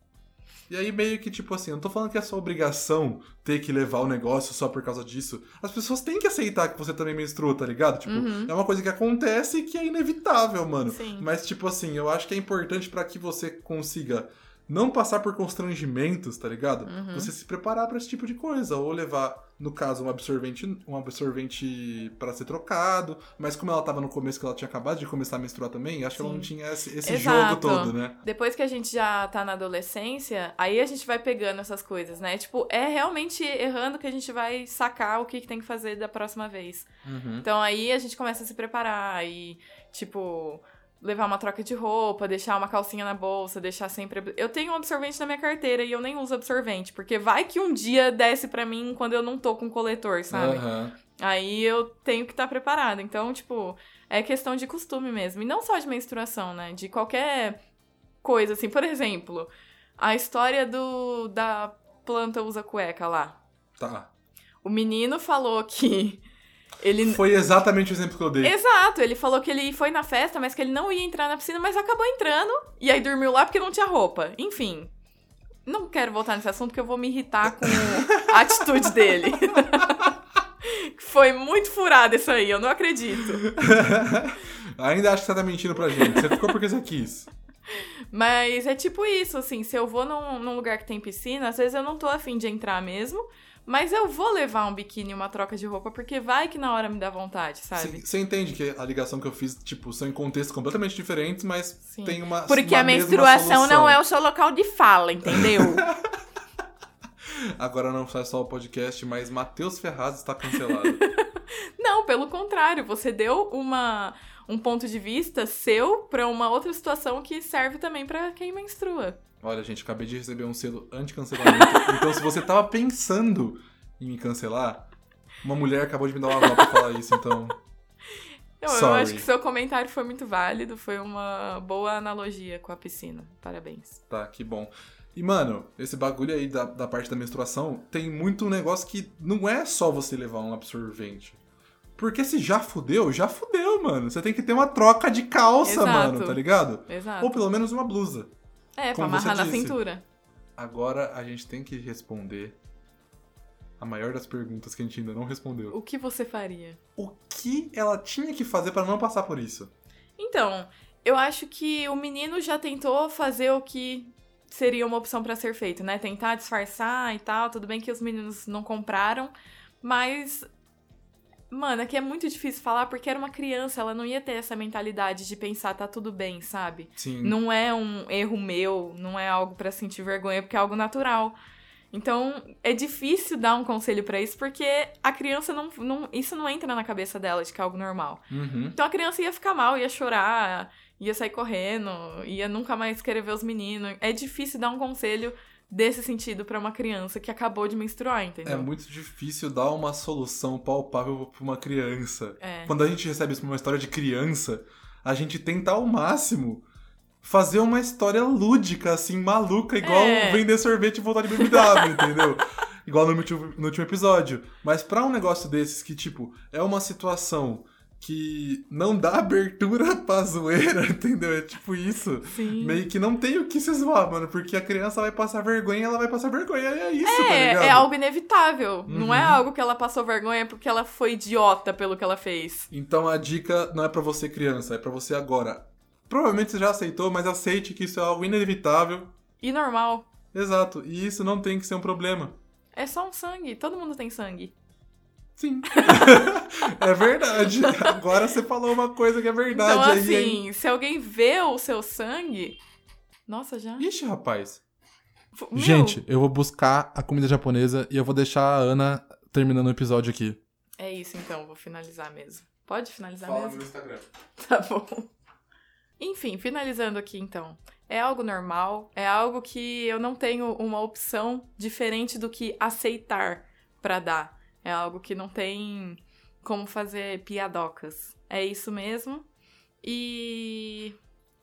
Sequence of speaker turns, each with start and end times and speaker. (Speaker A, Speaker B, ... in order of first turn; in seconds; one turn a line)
Speaker A: 0.7-28.2
Speaker B: 8.1-8.5
Speaker B: 10.9-11.3
Speaker B: 16.9-17.3
Speaker B: 26.2-26.5
Speaker B: 27.0-36.9
Speaker A: 37.0-37.5
Speaker B: 37.4-50.7
Speaker A: 50.3-51.0
Speaker B: 51.2-57.6
Speaker B: 58.2-63.4
Speaker A: 63.8-64.1
Speaker B: 64.6-66.2
Speaker B: 66.8-67.2
Speaker A: 67.0-68.5
Speaker B: 68.4-74.9
Speaker B: 75.7-80.1
Speaker A: 77.6-79.4
Speaker B: 80.6-83.5
Speaker A: 83.4-87.3
Speaker B: 86.0-86.3
Speaker B: 88.1-98.1
Speaker A: 97.8-104.0
Speaker B: 101.9-105.9
Speaker A: 105.3-106.1
Speaker A: 107.4-111.0
Speaker B: 110.5-119.2
Speaker A: 119.4-124.9
Speaker B: 121.4-122.0
Speaker A: 125.4-127.6
Speaker B: 126.4-126.8
Speaker B: 128.6-134.0
Speaker A: 128.7-129.3
Speaker A: 134.1-141.4
Speaker A: 142.0-148.3
Speaker B: 145.6-147.4
Speaker B: 148.8-150.0
Speaker A: 148.9-149.8
Speaker A: 150.6-152.6
Speaker A: 153.8-155.8
Speaker B: 155.7-156.8
Speaker A: 157.0-159.7
Speaker B: 160.2-170.5
Speaker B: 171.5-181.4
Speaker A: 177.0-177.4
Speaker B: 181.9-198.7
Speaker A: 188.3-188.8
Speaker A: 198.4-206.7
Speaker B: 202.4-202.7
Speaker A: 207.2-227.9
Speaker B: 209.8-210.5
Speaker B: 211.3-212.2
Speaker B: 222.3-222.8
Speaker B: 227.0-232.7
Speaker A: 228.9-229.4
Speaker A: 232.7-239.1
Speaker B: 239.4-240.1
Speaker A: 240.3-242.4
Speaker B: 242.8-244.5
Speaker A: 245.4-250.4
Speaker B: 245.7-246.2
Speaker B: 247.5-248.0
Speaker B: 249.5-252.6
Speaker B: 253.3-253.8
Speaker A: 253.8-254.6
Speaker B: 255.4-256.0
Speaker A: 255.6-260.4
Speaker B: 260.8-263.7
Speaker A: 263.2-264.1
Speaker B: 264.4-265.1
Speaker B: 266.0-279.3
Speaker B: 279.8-281.0